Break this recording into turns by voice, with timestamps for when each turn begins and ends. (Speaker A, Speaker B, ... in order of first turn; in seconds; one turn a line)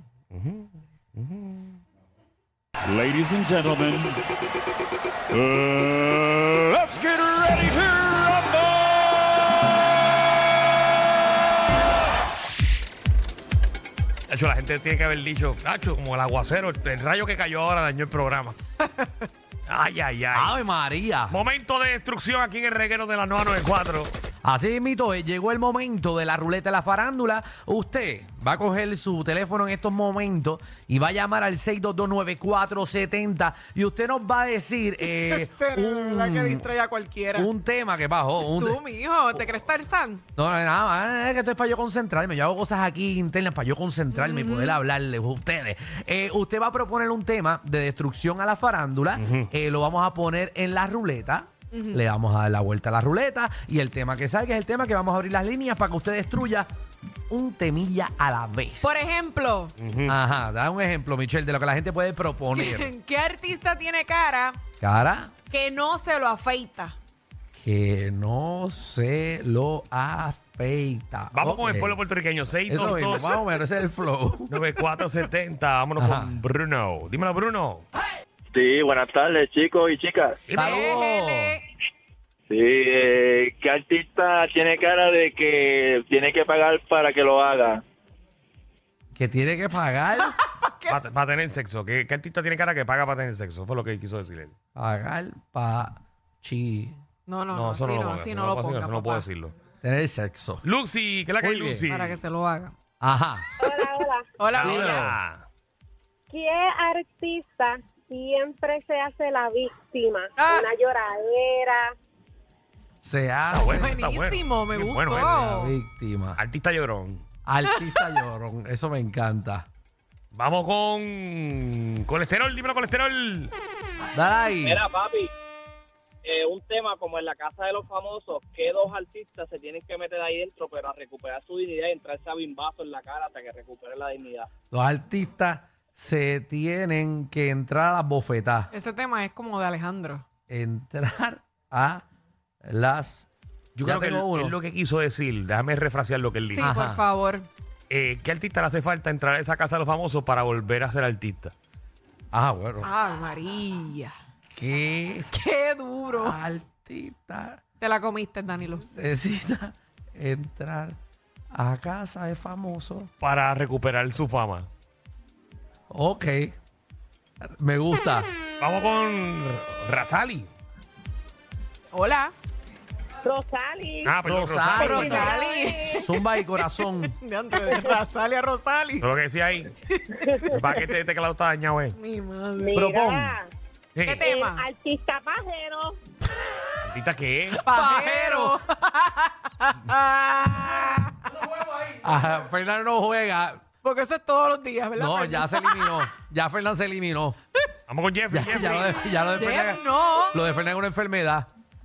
Speaker A: 0.3-1.8
Speaker B: 2.9-4.2
Speaker B: 5.3-9.2
Speaker A: 14.3-18.6
Speaker A: 19.7-20.6
Speaker C: 20.3-21.4
Speaker A: 21.3-24.1
Speaker C: 24.4-36.7
Speaker D: 35.1-37.5
Speaker C: 37.4-38.8
Speaker D: 38.4-40.2
Speaker C: 40.4-56.7
Speaker D: 44.1-44.8
Speaker A: 49.1-49.5
Speaker D: 51.7-52.0
Speaker C: 57.3-59.2
Speaker D: 58.8-59.8
Speaker A: 59.8-60.2
Speaker C: 60.1-62.9
Speaker D: 62.5-64.6
Speaker C: 64.8-65.3
Speaker D: 65.5-67.0
Speaker C: 67.6-72.0
Speaker A: 71.3-73.4
Speaker C: 72.7-74.5
Speaker A: 74.5-77.8
Speaker C: 76.0-76.4
Speaker E: 78.5-80.4
Speaker A: 80.5-81.0
Speaker C: 80.5-81.6
Speaker D: 80.6-81.6
Speaker E: 82.5-87.8
Speaker C: 89.2-90.4
Speaker D: 90.2-91.0
Speaker A: 90.9-94.5
Speaker C: 94.8-97.0
Speaker D: 97.3-99.3
Speaker A: 97.5-99.5
Speaker C: 99.8-100.6
Speaker A: 100.6-102.2
Speaker C: 101.4-101.9
Speaker D: 101.9-102.7
Speaker C: 103.0-103.5
Speaker F: 103.6-104.3
Speaker D: 104.4-105.1
Speaker A: 104.5-105.5
Speaker C: 104.6-105.1
Speaker F: 106.3-111.9
Speaker D: 110.4-110.7
Speaker C: 113.0-113.9
Speaker A: 113.5-115.7
Speaker D: 113.6-115.7
Speaker C: 115.2-116.4
Speaker A: 116.4-117.2
Speaker C: 117.5-119.7
Speaker A: 120.3-123.5
Speaker C: 124.2-124.8
Speaker G: 124.6-125.3
Speaker G: 126.2-134.5
Speaker C: 134.7-138.7
Speaker D: 138.7-140.2
Speaker C: 140.5-142.1
Speaker C: 142.7-143.3
Speaker A: 143.8-146.7
Speaker C: 143.8-144.6
Speaker D: 146.5-147.5
Speaker C: 146.6-147.0
Speaker A: 147.9-151.5
Speaker C: 152.3-152.9
Speaker D: 152.8-154.1
Speaker C: 154.6-155.3
Speaker D: 155.3-156.4
Speaker C: 156.1-157.6
Speaker D: 157.8-158.9
Speaker C: 158.9-160.9
Speaker C: 161.5-163.1
Speaker A: 163.2-164.7
Speaker C: 165.9-166.6
Speaker C: 167.4-168.3
Speaker A: 168.6-170.5
Speaker D: 171.9-172.3
Speaker F: 173.2-174.2
Speaker A: 174.0-175.0
Speaker C: 174.2-177.1
Speaker F: 174.8-176.1
Speaker D: 174.8-179.1
Speaker F: 177.7-178.0
Speaker A: 179.0-179.7
Speaker D: 179.9-180.6
Speaker F: 180.2-180.5
Speaker A: 180.5-181.9
Speaker D: 181.9-182.7
Speaker F: 182.6-183.5
Speaker C: 182.7-183.4
Speaker A: 183.9-184.2
Speaker D: 184.0-184.7
Speaker F: 184.2-186.0
Speaker A: 186.8-187.6
Speaker C: 187.5-188.6
Speaker D: 187.7-191.3
Speaker C: 191.8-193.7
Speaker D: 193.8-196.0
Speaker C: 195.0-197.4
Speaker A: 197.9-199.0
Speaker C: 198.3-201.5
Speaker D: 199.4-200.4